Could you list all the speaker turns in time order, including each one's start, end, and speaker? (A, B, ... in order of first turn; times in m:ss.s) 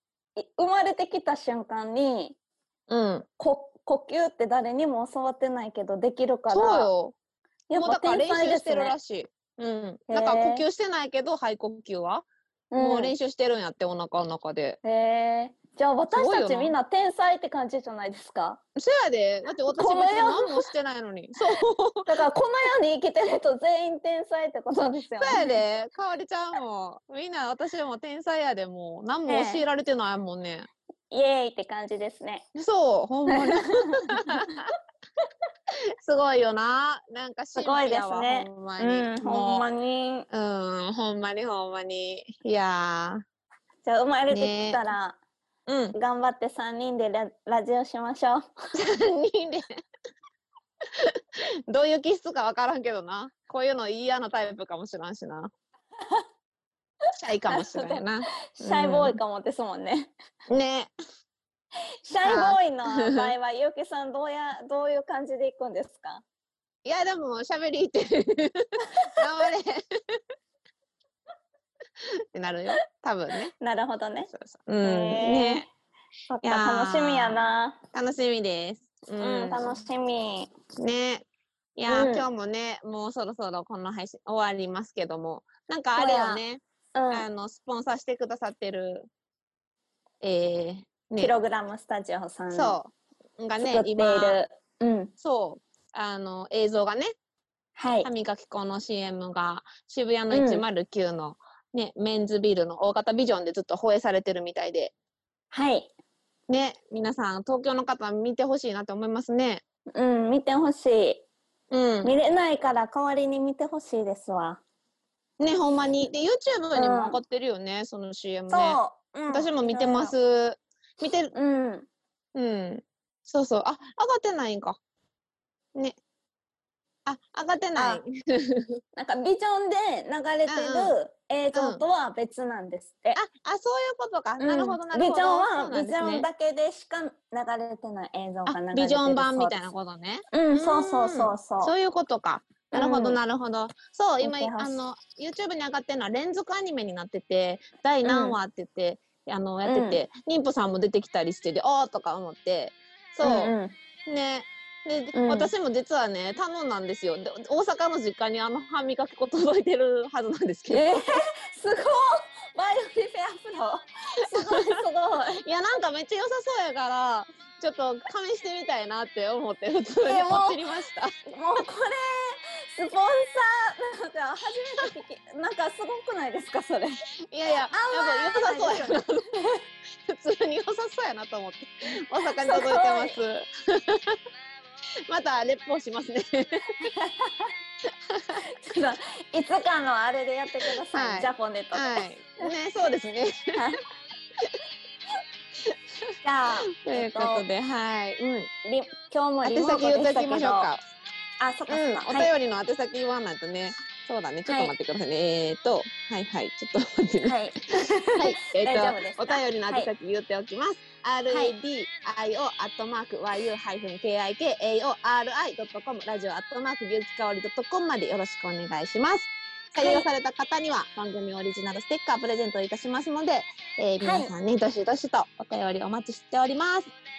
0:00.4-0:02.4 A
0:02.9-0:03.3 B
0:03.4-0:06.9 A
0:06.5-0:07.2 B
0:07.7-0:09.0 A
0:07.8-0:12.3 B
0:10.1-0:10.6 A
0:12.7-0:13.1 A
0:12.8-0:14.8 B
0:14.8-0:18.6 A
0:16.1-0:16.7 B
0:18.8-0:22.1 B
0:19.7-0:20.7 A
0:22.1-0:25.5 A
0:25.2-0:30.7 B
0:29.3-0:29.6 A
0:31.1-0:32.5 A
0:32.6-0:34.6 B
0:33.3-0:34.4 A
0:36.0-0:39.7 B
0:37.6-0:40.3 A
0:40.3-0:43.2 B
0:43.8-0:45.2 A
0:44.3-0:44.8 B
0:45.7-0:46.0 B
0:45.9-0:48.5 A
0:48.7-0:49.8 B
0:50.9-0:55.5 B
0:57.2-0:59.2 B
0:57.5-1:00.1 A
1:00.5-1:00.9 B
1:02.0-1:06.2 A
1:02.2-1:03.3 B
1:06.8-1:10.2 B
1:12.0-1:13.5 B
1:13.6-1:14.3 A
1:14.3-1:15.6 B
1:14.8-1:15.7 A
1:16.3-1:17.8 A
1:16.4-1:17.4 B
1:17.9-1:19.8 B
1:19.2-1:20.5 A
1:20.8-1:29.1 B
1:21.9-1:22.3 A
1:26.0-1:26.4 A
1:27.0-1:27.3 A
1:30.2-1:31.3 B
1:31.2-1:32.8 A
1:32.5-1:34.4 B
1:33.6-1:35.1 A
1:35.2-1:37.1 B
1:37.8-1:38.1 A
1:38.0-1:44.9 B
1:40.3-1:40.6 A
1:45.5-1:45.9 A
1:46.5-1:49.6 B
1:50.0-1:51.2 A
1:51.7-1:52.1 B
1:52.0-1:54.6 A
1:55.4-2:01.3 B
1:56.8-1:57.2 A
1:58.5-2:00.1 A
2:01.3-2:01.9 A
2:02.4-2:04.8 B
2:07.1-2:08.8 B
2:07.8-2:08.0 A
2:09.0-2:13.2 A
2:10.5-2:10.9 B
2:11.5-2:11.8 B
2:13.2-2:16.3 B
2:14.4-2:19.6 A
2:18.5-2:33.5 B
2:20.3-2:21.7 A
2:22.7-2:23.2 A
2:24.2-2:24.8 A
2:28.0-2:28.4 A
2:29.6-2:30.0 A
2:33.2-2:33.8 A
2:34.1-2:40.9 B
2:35.1-2:35.5 A
2:40.7-2:45.4 A
2:44.4-2:44.8 B
2:45.4-2:51.1 B
2:50.0-2:50.6 A
2:51.3-2:57.0 A
2:57.3-2:59.4 B
2:57.7-2:59.0 A
3:00.0-3:04.2 B
3:02.4-3:03.2 A
3:05.1-3:06.8 B
3:06.8-3:07.5 A
3:08.1-3:08.4 B
3:08.4-3:12.5 A
3:10.9-3:13.6 B
3:13.6-3:13.8 A
3:15.6-3:16.1 B
3:16.2-3:17.5 A
3:16.8-3:18.5 B
3:18.6-3:20.7 A
3:19.4-3:20.8 B
3:21.4-3:22.3 A
3:21.7-3:27.4 B
3:24.5-3:24.7 A
3:27.2-3:29.9 A
3:28.1-3:46.9 B
3:31.3-3:31.6 A
3:39.8-3:40.1 A
3:44.0-3:44.3 A